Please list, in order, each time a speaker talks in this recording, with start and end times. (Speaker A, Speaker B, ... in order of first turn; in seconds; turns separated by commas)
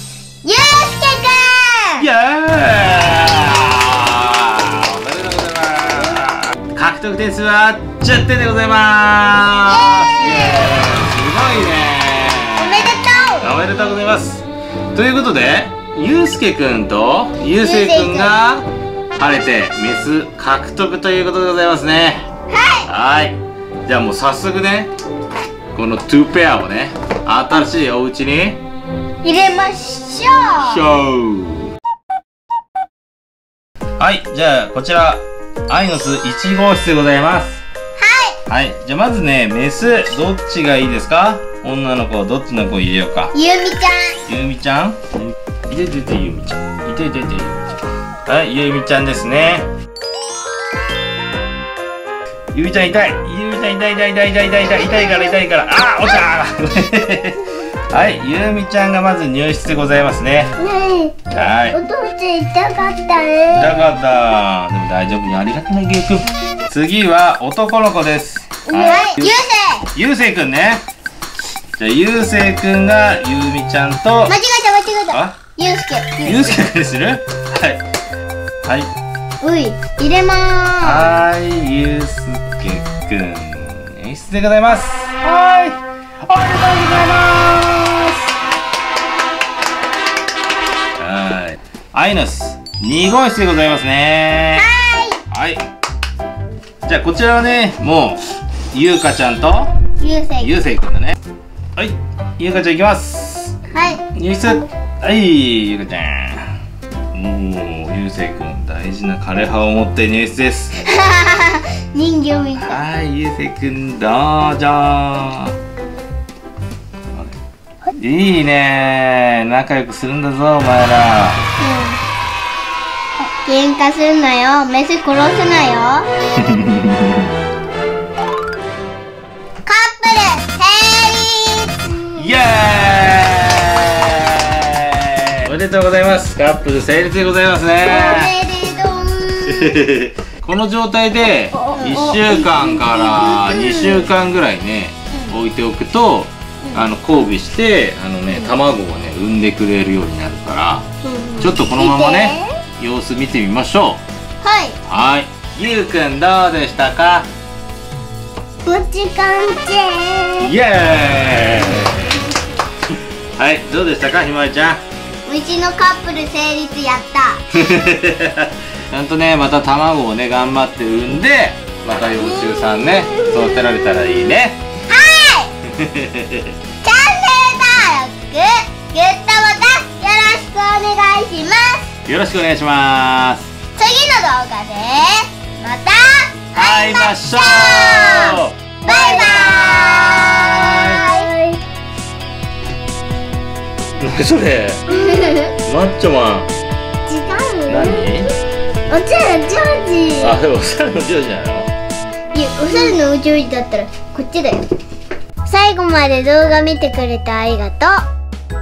Speaker A: 0.4-2.0, Speaker B: 2.0-18.6, Speaker A: 9.6-10.9, Speaker A: 12.6-13.5, Speaker A: 17.6-18.3, Speaker B: 19.2-22.2, Speaker A: 22.5-22.9, Speaker B: 22.9-24.9, Speaker B: 25.7-28.6, Speaker A: 29.2-30.8, Speaker B: 30.6-31.7, Speaker B: 34.0-37.6, Speaker A: 38.0-38.4, Speaker B: 38.5-43.3, Speaker A: 43.3-44.1, Speaker B: 44.3-47.7, Speaker B: 48.2-49.7, Speaker B: 52.5-60.5, Speaker A: 54.9-55.3, Speaker A: 60.6-61.1, Speaker B: 61.3-61.8, Speaker A: 61.7-63.9, Speaker B: 63.5-69.4, Speaker A: 68.7-69.8, Speaker B: 69.9-70.8, Speaker B: 71.7-74.3, Speaker A: 74.3-76.5, Speaker B: 75.1-75.3, Speaker B: 76.2-77.8, Speaker B: 78.6-78.9, Speaker A: 79.4-81.2, Speaker B: 80.8-88.2, Speaker B: 91.0-94.7, Speaker A: 94.5-95.2, Speaker B: 95.3-95.6, Speaker B: 96.8-99.7, Speaker A: 100.0-100.6, Speaker B: 100.4-101.2, Speaker B: 101.8-103.5, Speaker A: 103.7-104.0, Speaker B: 104.1-106.5, Speaker B: 107.1-110.8, Speaker A: 110.8-112.8, Speaker B: 112.6-115.5, Speaker B: 118.0-121.4, Speaker A: 121.6-122.0, Speaker A: 123.2-126.1, Speaker B: 126.4-127.1, Speaker A: 129.6-132.2, Speaker B: 132.2-138.3, Speaker A: 137.8-139.8, Speaker B: 139.5-150.8, Speaker A: 141.5-144.1, Speaker A: 148.3-148.5, Speaker A: 151.0-152.5, Speaker B: 151.4-154.0, Speaker A: 154.4-154.8, Speaker B: 154.9-157.3, Speaker A: 158.6-160.5, Speaker B: 160.4-162.2, Speaker B: 163.4-164.8, Speaker A: 165.2-167.4, Speaker B: 167.5-174.6, Speaker A: 172.2-173.7, Speaker A: 174.9-175.5, Speaker B: 175.7-176.5, Speaker A: 176.8-181.9, Speaker B: 182.1-183.5, Speaker A: 183.8-191.6, Speaker B: 186.5-191.0, Speaker B: 194.0-194.8, Speaker A: 194.9-195.5, Speaker B: 195.6-196.5, Speaker A: 197.1-198.1, Speaker B: 197.7-198.3, Speaker A: 198.9-200.4, Speaker B: 200.2-201.7, Speaker A: 202.3-204.6, Speaker A: 205.4-208.0